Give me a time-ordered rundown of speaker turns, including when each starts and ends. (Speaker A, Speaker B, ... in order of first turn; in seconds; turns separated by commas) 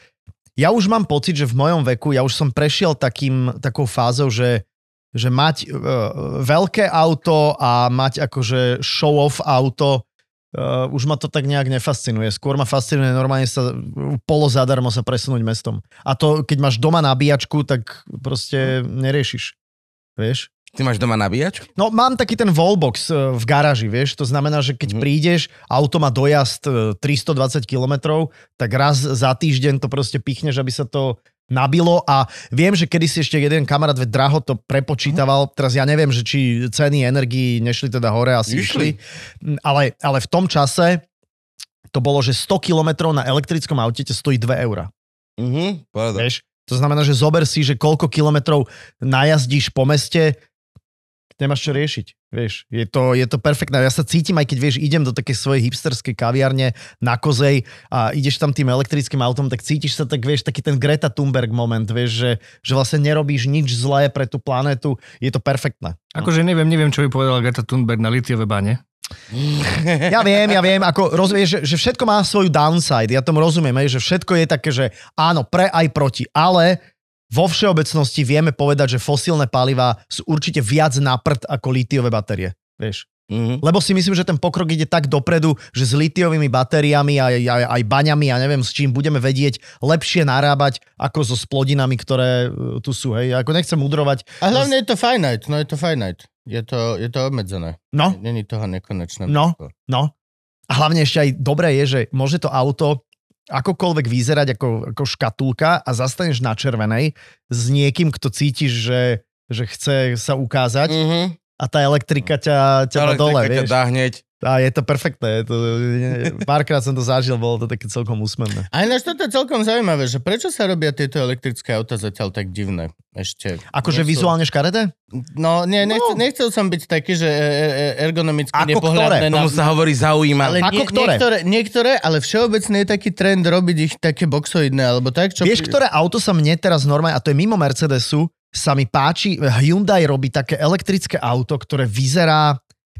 Speaker A: 0.6-19.5, Speaker A: 20.2-20.5, Speaker B: 20.7-21.7, Speaker A: 21.8-41.0, Speaker B: 38.5-38.9, Speaker A: 41.9-44.9, Speaker B: 45.4-46.2, Speaker A: 46.1-50.4, Speaker A: 51.4-66.2, Speaker C: 66.1-68.8, Speaker B: 69.3-70.2, Speaker A: 70.1-83.1, Speaker B: 83.3-83.6, Speaker A: 83.6-94.7, Speaker D: 94.4-99.7, Speaker A: 99.3-100.1, Speaker A: 100.7-111.0, Speaker B: 110.9-111.3, Speaker A: 111.6-113.7, Speaker B: 112.9-114.2, Speaker A: 114.4-118.7, Speaker D: 118.7-124.3, Speaker A: 123.7-124.9, Speaker D: 125.1-129.6, Speaker A: 125.8-126.2, Speaker A: 128.5-129.3, Speaker B: 129.3-130.6, Speaker D: 130.4-135.8, Speaker A: 130.6-131.2, Speaker A: 135.4-142.6